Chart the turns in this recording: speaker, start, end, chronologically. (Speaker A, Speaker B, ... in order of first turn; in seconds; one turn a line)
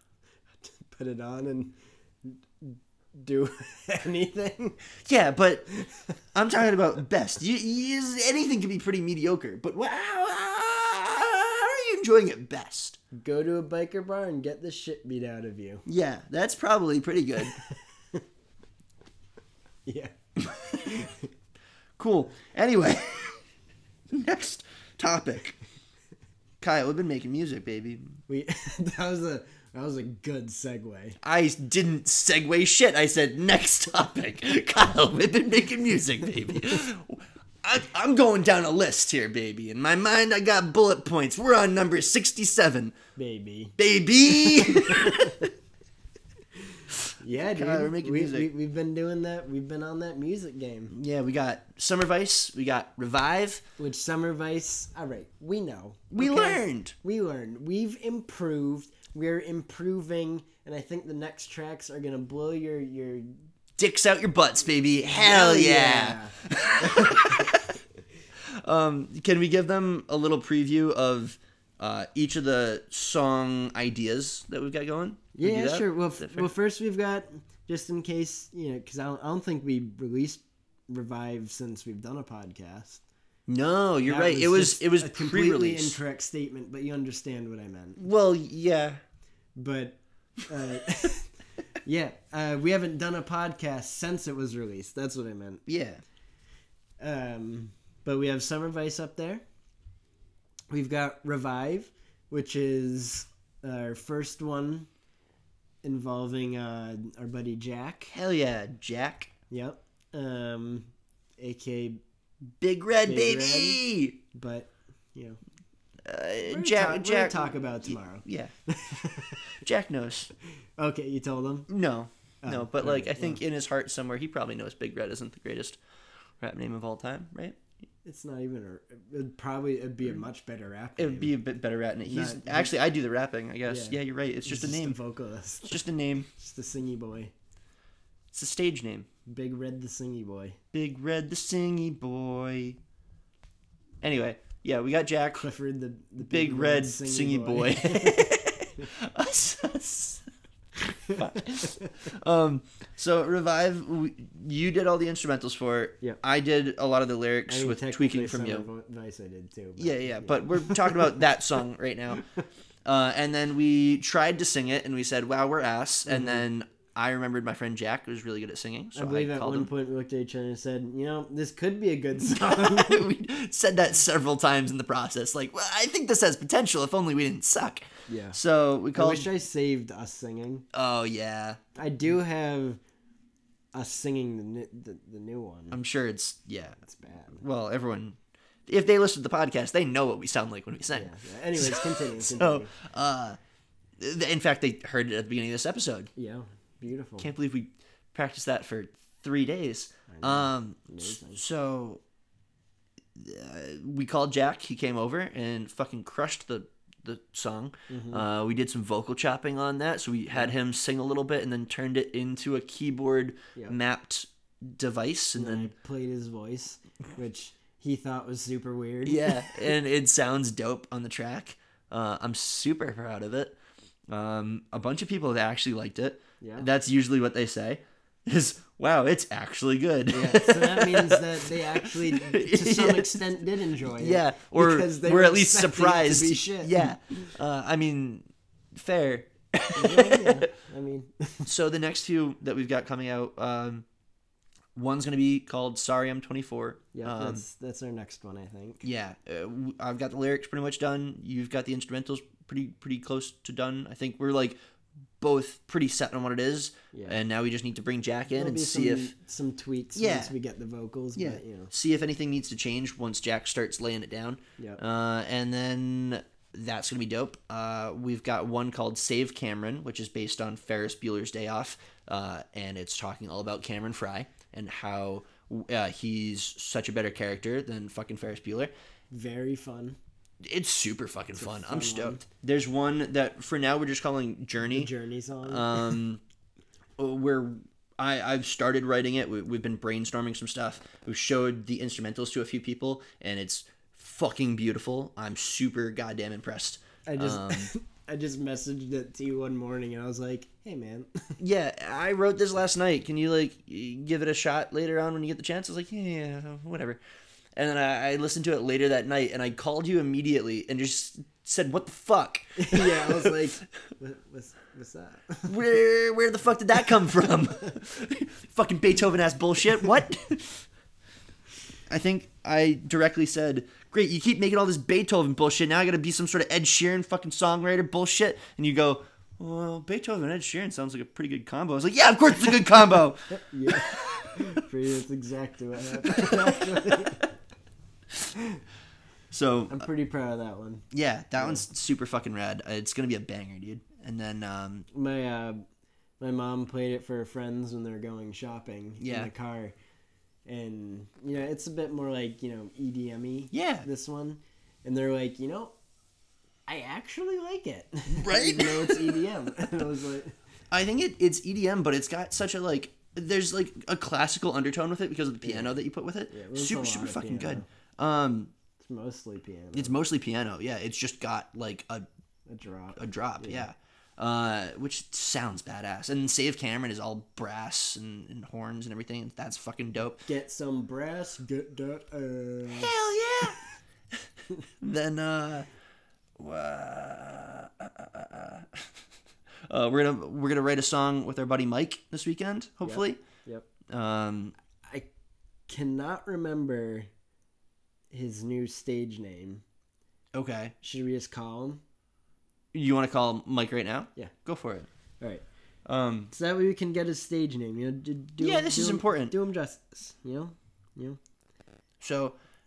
Speaker A: 0.6-4.8
Speaker B: 5.0-5.7
Speaker A: 5.8-6.0
Speaker B: 6.3-13.0
Speaker A: 13.1-15.8
Speaker B: 15.8-17.6
Speaker A: 17.7-18.2
Speaker A: 19.9-21.3
Speaker B: 22.0-23.4
Speaker B: 24.1-25.6
Speaker B: 26.6-28.2
Speaker A: 28.3-31.2
Speaker B: 31.2-43.0
Speaker A: 43.1-45.5
Speaker B: 43.8-45.4
Speaker A: 46.7-50.9
Speaker B: 47.4-48.5
Speaker B: 50.9-53.6
Speaker A: 53.8-63.4
Speaker B: 56.1-56.9
Speaker B: 63.8-67.8
Speaker A: 65.0-66.3
Speaker A: 66.9-67.3
Speaker B: 68.4-76.5
Speaker A: 75.3-83.0
Speaker B: 83.5-86.0
Speaker A: 84.0-88.0
Speaker B: 88.0-89.0
Speaker A: 89.5-91.3
Speaker A: 91.8-95.6
Speaker B: 95.7-96.0
Speaker A: 97.0-99.4
Speaker A: 100.7-104.9
Speaker A: 105.8-108.1
Speaker B: 108.1-109.3
Speaker A: 109.5-112.0
Speaker B: 112.6-114.2
Speaker A: 113.0-115.4
Speaker B: 116.0-118.5
Speaker A: 116.4-119.5
Speaker B: 119.6-120.3
Speaker A: 120.8-121.7
Speaker B: 121.7-125.8
Speaker A: 122.4-123.4
Speaker B: 126.4-127.6
Speaker A: 128.0-131.3
Speaker B: 131.0-135.0
Speaker A: 132.1-132.7
Speaker A: 133.7-137.3
Speaker B: 135.6-136.3
Speaker B: 138.3-139.1
Speaker A: 139.2-140.6
Speaker B: 140.7-142.8
Speaker B: 144.0-145.4
Speaker A: 145.3-148.9
Speaker B: 146.2-150.2
Speaker B: 151.0-158.7
Speaker A: 157.5-161.2
Speaker B: 159.8-162.2
Speaker B: 162.8-169.7
Speaker A: 166.1-166.4
Speaker A: 168.9-173.1
Speaker B: 172.2-179.3
Speaker A: 178.1-178.4
Speaker A: 178.9-180.6
Speaker B: 180.7-181.6
Speaker A: 181.7-182.8
Speaker A: 183.7-185.8
Speaker B: 185.7-186.8
Speaker A: 186.8-187.4
Speaker B: 187.3-193.4
Speaker A: 190.9-192.7
Speaker B: 194.0-196.1
Speaker A: 196.2-197.3
Speaker B: 197.2-202.0
Speaker A: 200.1-201.4
Speaker B: 203.1-215.7
Speaker A: 207.9-208.2
Speaker A: 215.3-219.6
Speaker B: 219.1-223.6
Speaker B: 224.1-233.2
Speaker A: 226.4-226.7
Speaker A: 230.1-237.3
Speaker B: 233.8-240.4
Speaker A: 239.7-241.5
Speaker B: 241.4-243.8
Speaker B: 244.7-247.4
Speaker A: 246.9-248.8
Speaker B: 248.8-254.6
Speaker B: 255.2-259.1
Speaker A: 256.9-257.2
Speaker A: 258.3-261.7
Speaker B: 259.9-260.3
Speaker B: 261.1-278.7
Speaker A: 279.1-280.0
Speaker B: 280.4-284.9
Speaker A: 281.4-282.2
Speaker A: 284.7-286.0
Speaker B: 285.4-286.2
Speaker B: 287.0-297.7
Speaker A: 297.1-301.3
Speaker B: 301.4-307.0
Speaker B: 307.5-313.5
Speaker A: 312.6-315.5
Speaker B: 315.4-320.6
Speaker B: 321.9-334.5
Speaker A: 333.3-337.3
Speaker B: 335.9-336.8
Speaker B: 339.3-339.9
Speaker A: 339.7-340.9
Speaker B: 340.9-344.9
Speaker A: 341.4-341.6
Speaker A: 344.9-345.6
Speaker A: 346.2-349.7
Speaker B: 349.0-349.3
Speaker A: 350.4-355.7
Speaker B: 353.5-353.9
Speaker A: 356.7-360.4
Speaker B: 358.1-359.2
Speaker B: 360.7-368.5
Speaker A: 365.4-365.7
Speaker A: 366.3-367.6
Speaker A: 368.8-370.0
Speaker B: 369.7-372.1
Speaker A: 372.5-373.7
Speaker B: 372.9-380.2
Speaker A: 380.2-382.9
Speaker B: 382.7-383.6
Speaker B: 384.8-385.7
Speaker B: 386.4-388.9
Speaker B: 389.7-393.2
Speaker A: 392.8-393.6
Speaker B: 393.9-394.5
Speaker A: 395.7-397.1
Speaker A: 398.1-399.6
Speaker B: 400.3-400.7
Speaker A: 400.8-401.8
Speaker B: 402.7-404.9
Speaker B: 405.9-406.3
Speaker A: 406.3-411.2
Speaker B: 408.4-409.4
Speaker B: 412.0-412.4